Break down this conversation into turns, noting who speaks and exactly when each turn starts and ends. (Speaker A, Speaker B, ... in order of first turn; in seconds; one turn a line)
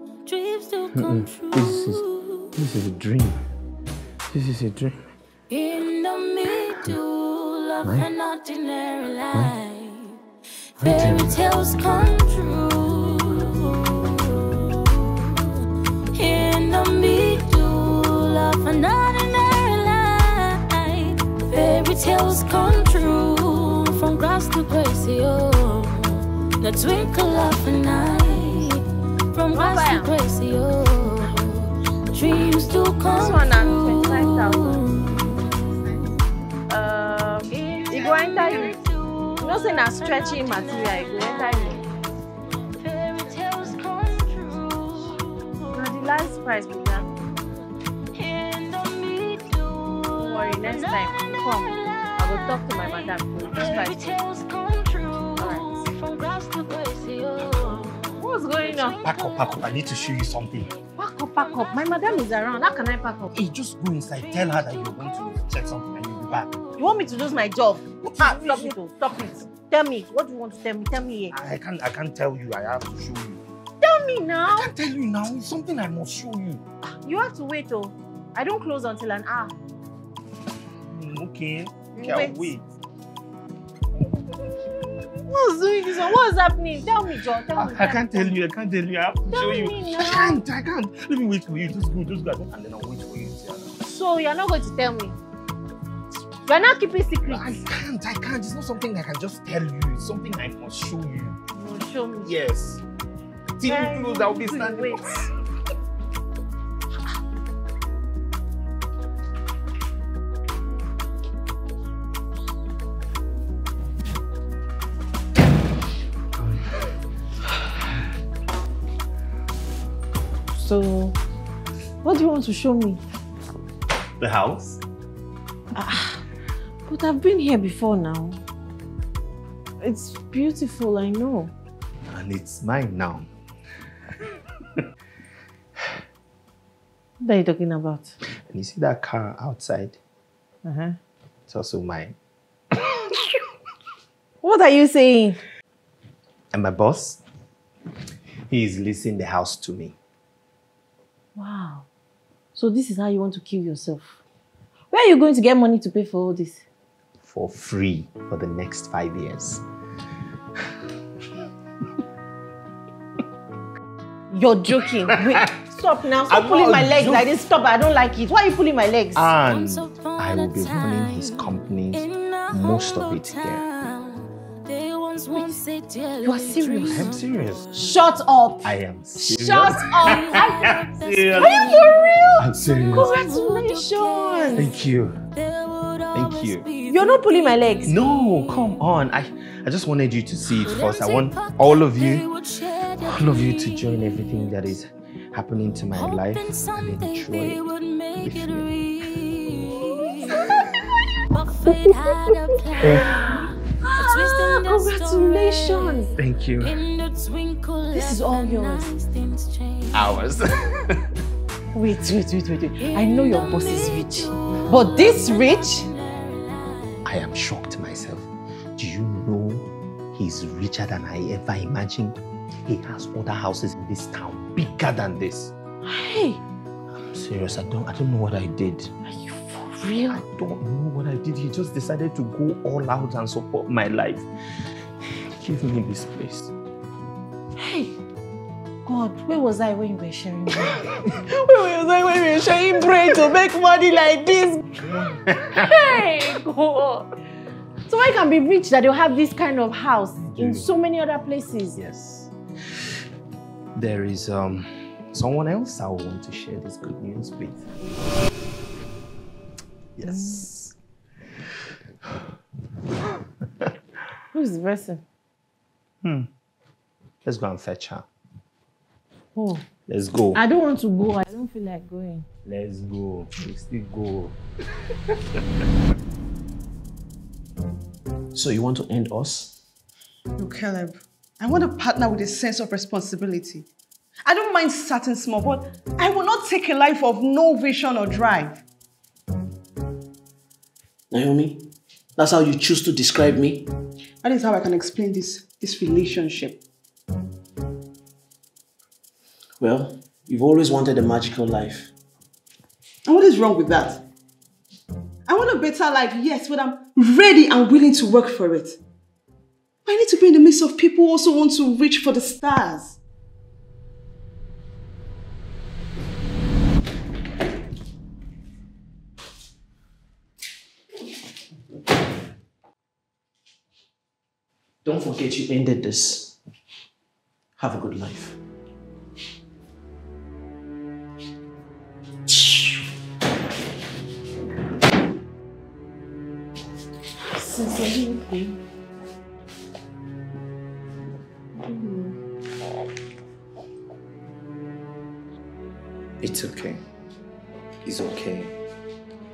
Speaker A: 0.2-2.5
Speaker B: 0.9-2.0
Speaker B: 2.5-3.4
Speaker B: 4.3-5.0
Speaker A: 5.5-10.2
Speaker B: 7.8-8.1
Speaker A: 10.8-35.6
Speaker B: 10.8-11.4
Speaker C: 29.5-30.1
Speaker C: 33.0-34.9
Speaker C: 36.7-38.8
Speaker A: 37.5-42.0
Speaker C: 39.4-41.8
Speaker A: 42.8-46.0
Speaker C: 45.7-47.1
Speaker A: 48.1-59.4
Speaker C: 50.1-54.2
Speaker C: 55.4-55.8
Speaker C: 58.1-59.0
Speaker B: 58.9-60.7
Speaker C: 61.0-63.3
Speaker B: 63.3-66.6
Speaker C: 66.8-71.3
Speaker B: 68.0-68.7
Speaker B: 71.3-73.4
Speaker C: 73.8-74.7
Speaker B: 74.5-76.6
Speaker C: 77.0-79.5
Speaker B: 80.9-82.6
Speaker C: 81.9-82.5
Speaker C: 84.0-88.3
Speaker B: 87.5-93.9
Speaker C: 89.3-90.4
Speaker C: 93.8-95.2
Speaker C: 96.5-97.6
Speaker B: 97.2-101.4
Speaker C: 101.5-102.3
Speaker B: 102.2-102.8
Speaker B: 103.6-105.1
Speaker C: 103.6-105.3
Speaker C: 120.5-121.2
Speaker C: 122.0-123.0
Speaker B: 124.2-124.8
Speaker C: 125.7-126.2
Speaker C: 126.9-128.4
Speaker C: 129.8-131.5
Speaker B: 132.1-133.3
Speaker C: 137.2-138.1
Speaker B: 138.5-140.0
Speaker C: 140.6-141.0
Speaker B: 141.5-142.1
Speaker C: 144.4-145.4
Speaker B: 146.5-147.2
Speaker B: 148.5-149.9
Speaker C: 151.3-151.9
Speaker C: 152.5-154.2
Speaker C: 154.9-156.6
Speaker B: 157.2-159.6
Speaker C: 164.3-169.3
Speaker B: 166.3-167.3
Speaker B: 169.2-173.6
Speaker A: 169.3-177.2
Speaker C: 176.2-177.1
Speaker B: 176.9-177.7
Speaker C: 177.7-180.7
Speaker B: 178.6-181.8
Speaker A: 179.8-188.2
Speaker C: 181.4-184.7
Speaker B: 182.4-183.2
Speaker B: 184.5-185.2
Speaker B: 186.1-186.7
Speaker C: 186.9-187.9
Speaker B: 187.8-192.2
Speaker A: 190.6-194.2
Speaker B: 193.0-197.6
Speaker A: 195.9-200.5
Speaker B: 198.2-198.7
Speaker A: 201.3-203.4
Speaker B: 202.8-203.5
Speaker C: 203.8-206.2
Speaker A: 204.0-210.2
Speaker B: 206.2-206.8
Speaker C: 207.9-208.9
Speaker B: 209.9-211.0
Speaker C: 211.7-215.9
Speaker A: 212.8-217.0
Speaker B: 217.0-225.5
Speaker C: 225.8-226.4
Speaker B: 227.0-228.9
Speaker C: 229.0-230.2
Speaker B: 230.1-234.3
Speaker B: 235.3-236.5
Speaker C: 237.6-237.9
Speaker C: 238.8-247.1
Speaker B: 244.9-245.3
Speaker C: 247.9-251.8
Speaker B: 250.2-250.7
Speaker B: 251.7-252.3
Speaker B: 253.8-258.0
Speaker B: 260.0-260.7
Speaker C: 264.3-265.0
Speaker B: 266.0-266.3
Speaker B: 267.2-268.1
Speaker C: 269.3-269.7
Speaker B: 269.9-270.4
Speaker C: 270.3-272.2
Speaker B: 272.4-274.4
Speaker D: 278.3-279.6
Speaker E: 280.4-283.7
Speaker E: 284.2-288.6
Speaker D: 291.1-291.6
Speaker D: 292.2-293.7
Speaker E: 294.2-296.6
Speaker D: 299.6-301.9
Speaker E: 303.1-304.0
Speaker E: 305.3-308.8
Speaker E: 309.8-313.0
Speaker D: 324.8-326.4
Speaker D: 327.6-328.4
Speaker C: 337.4-338.5
Speaker C: 341.6-342.1
Speaker B: 346.2-346.8
Speaker B: 347.8-348.5